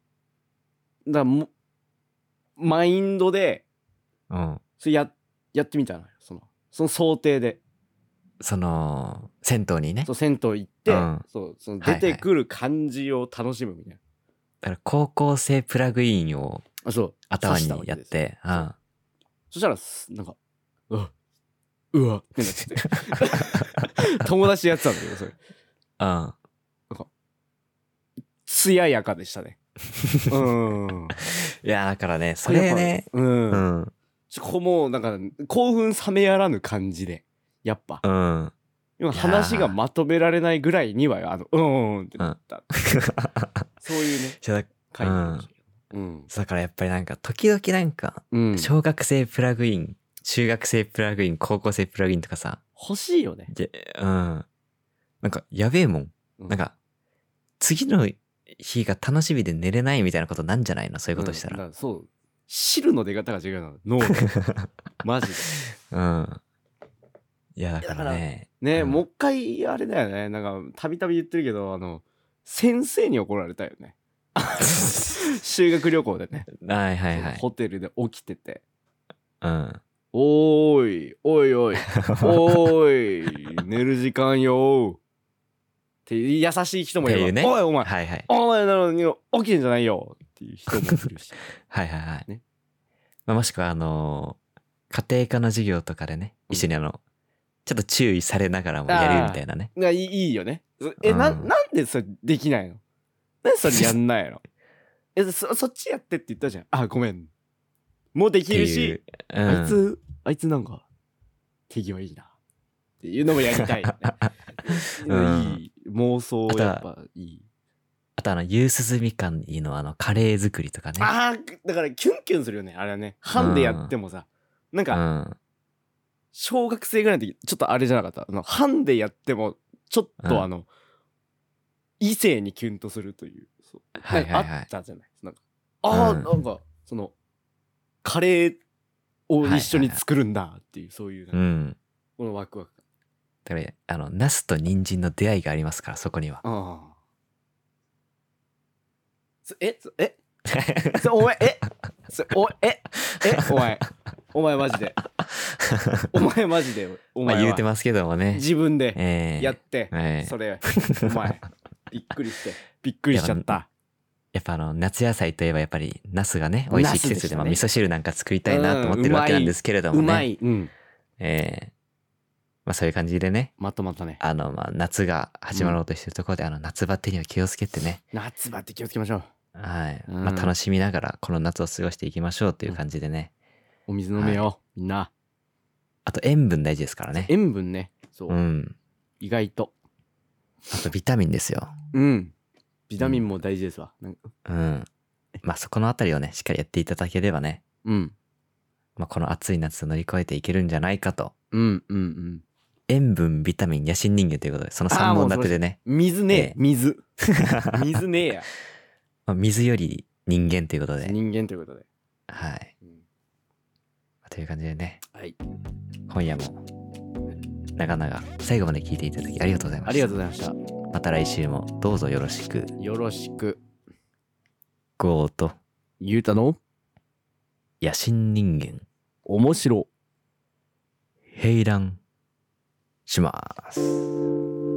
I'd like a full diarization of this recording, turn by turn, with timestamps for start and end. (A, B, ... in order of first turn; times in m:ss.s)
0:01.0-0:01.5 A
0:02.6-0:03.6 A
0:04.3-0:04.6 B
0:04.8-0:07.6 A
0:08.4-0:10.1 B
0:10.0-0:14.0 A
0:10.9-0:11.2 B
0:11.8-0:12.2 B
0:14.6-0:16.6 B
0:16.8-0:18.7 A
0:17.3-0:18.8 B
0:19.5-0:20.4 A
0:21.9-0:25.4 A
0:22.8-0:23.9 B
0:26.0-0:26.3 B
0:28.4-0:29.6 A
0:29.9-0:30.3 B
0:30.3-0:31.2 A
0:31.1-0:33.9 B
0:32.4-0:33.6 A
0:34.3-0:38.0 A
0:38.0-0:38.5 B
0:39.0-0:42.6 A
0:39.1-0:39.8 B
0:42.2-0:43.7 B
0:43.8-0:44.4 A
0:44.4-0:45.5 B
0:44.9-0:46.3 A
0:46.3-0:52.6 B
0:48.3-0:48.7 A
0:52.8-0:53.5 A
0:53.5-0:54.5 B
0:55.2-0:56.8 B
0:57.6-1:01.6 B
1:01.1-1:04.3 A
1:04.2-1:04.7 B
1:05.0-1:05.5 A
1:05.7-1:06.4 B
1:07.6-1:09.0 B
1:07.8-1:16.5 A
1:16.5-1:17.4 B
1:17.1-1:18.6 A
1:19.4-1:19.8 B
1:20.1-1:25.0 A
1:21.9-1:22.7 B
1:26.0-1:31.4 A
1:27.0-1:28.3 B
1:31.7-1:32.3 B
1:33.3-1:34.4 B
1:34.9-1:37.0 B
1:37.6-1:39.7 B
1:38.9-1:42.8 A
1:41.0-1:41.5 B
1:43.4-1:44.4 A
1:45.1-1:47.3 A
1:48.1-1:50.8 A
1:48.5-1:49.8 B
1:51.7-1:52.3 A
1:53.0-1:57.4 A
1:53.8-1:55.6 B
1:56.5-1:56.8 B
1:58.2-2:01.1 B
2:01.0-2:05.0 A
2:03.4-2:03.9 B
2:04.9-2:05.4 B
2:06.3-2:10.7 A
2:10.2-2:10.5 B
2:12.0-2:17.1 A
2:14.0-2:14.7 B
2:15.9-2:16.3 B
2:18.0-2:18.6 A
2:19.3-2:21.3 A
2:19.4-2:20.0 B
2:21.3-2:21.8 B
2:22.2-2:22.8 A
2:23.4-2:26.4 B
2:26.4-2:26.9 A
2:29.4-2:30.2 A
2:30.4-2:31.1 B
2:31.0-2:35.0 A
2:33.0-2:33.8 B
2:35.0-2:36.1 B
2:36.1-2:37.6 A
2:37.2-2:41.4 B
2:38.3-2:43.7 A
2:43.1-2:43.6 B
2:44.3-2:50.3 B
2:46.7-2:47.6 A
2:48.5-2:50.7 A
2:51.2-2:51.7 B
2:52.6-2:53.5 B
2:53.6-2:54.2 A
2:54.2-2:58.0 B
2:58.1-2:59.3 A
2:59.5-3:03.3 B
3:00.1-3:00.5 A
3:03.9-3:05.1 A
3:04.2-3:04.4 B
3:06.0-3:07.3 B
3:07.2-3:08.4 A
3:08.3-3:08.8 B
3:09.2-3:09.7 A
3:10.7-3:11.7 B
3:11.9-3:12.3 A
3:12.9-3:14.3 A
3:13.0-3:13.2 B
3:14.4-3:14.9 B
3:15.4-3:17.6 B
3:17.8-3:18.1 A
3:19.0-3:21.3 B
3:21.5-3:22.4 A
3:22.9-3:25.8 B
3:24.9-3:27.0 A
3:26.3-3:26.6 B
3:27.2-3:27.8 B
3:27.6-3:28.5 A
3:29.3-3:31.1 B
3:31.0-3:31.8 A
3:32.3-3:32.7 B
3:34.2-3:35.0 B
3:36.1-3:36.6 B
3:37.8-3:40.1 B
3:39.8-3:40.6 A
3:40.9-3:42.7 B
3:42.8-3:43.6 A
3:45.0-3:45.6 B
3:46.0-3:46.6 A
3:47.8-3:48.8 B
3:49.2-3:49.9 A
3:51.3-3:52.0 B
3:53.1-3:54.0 B